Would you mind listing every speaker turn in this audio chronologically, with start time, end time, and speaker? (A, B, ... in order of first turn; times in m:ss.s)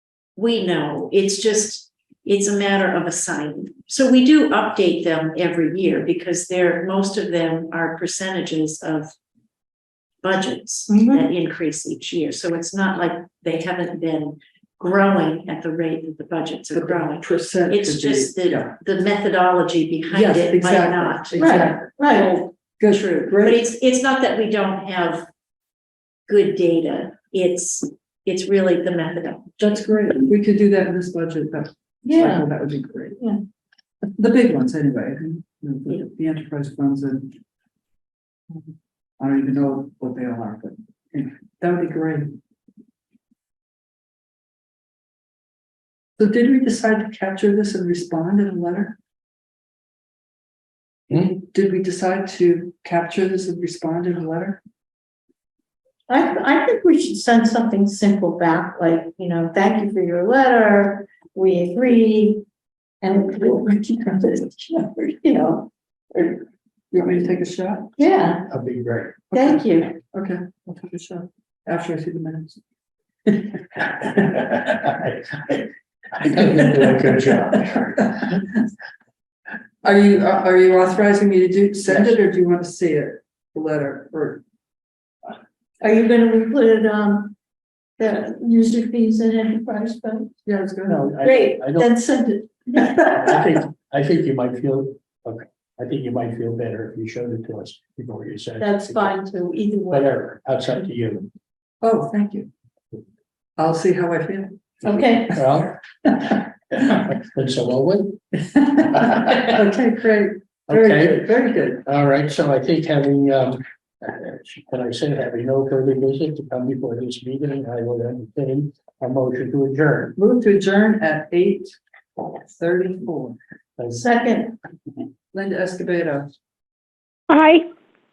0:00.4-0:09.1 A
0:10.2-0:25.3 A
0:10.9-0:11.2 B
0:16.7-0:18.7 C
0:20.1-0:23.6 C
0:21.4-0:22.3 B
0:26.3-0:29.9 A
0:29.6-0:33.2 C
0:32.0-0:32.5 B
0:34.2-0:37.4 C
0:39.2-0:42.4 C
0:46.2-0:49.0 C
0:51.1-0:54.6 C
0:56.1-1:02.4 B
1:03.0-1:06.4 B
1:03.4-1:04.3 C
1:06.9-1:07.9 C
1:08.0-1:08.4 B
1:08.5-1:09.2 D
1:09.3-1:12.6 C
1:09.3-1:09.9 B
1:14.2-1:18.4 D
1:18.1-1:18.4 C
1:19.8-1:24.4 C
1:25.8-1:27.3 B
1:28.0-1:30.3 B
1:30.4-1:31.1 C
1:30.9-1:31.9 D
1:31.2-1:33.4 B
1:33.0-1:39.2 D
1:38.6-1:40.1 B
1:39.9-1:41.3 D
1:41.8-1:42.5 C
1:43.6-1:44.8 C
1:44.8-1:45.4 B
1:45.3-1:48.2 D
1:48.5-1:51.8 C
1:49.0-1:49.4 D
1:50.7-2:00.2 D
2:00.2-2:03.4 C
2:03.8-2:04.1 D
2:04.0-2:04.5 B
2:05.3-2:06.3 C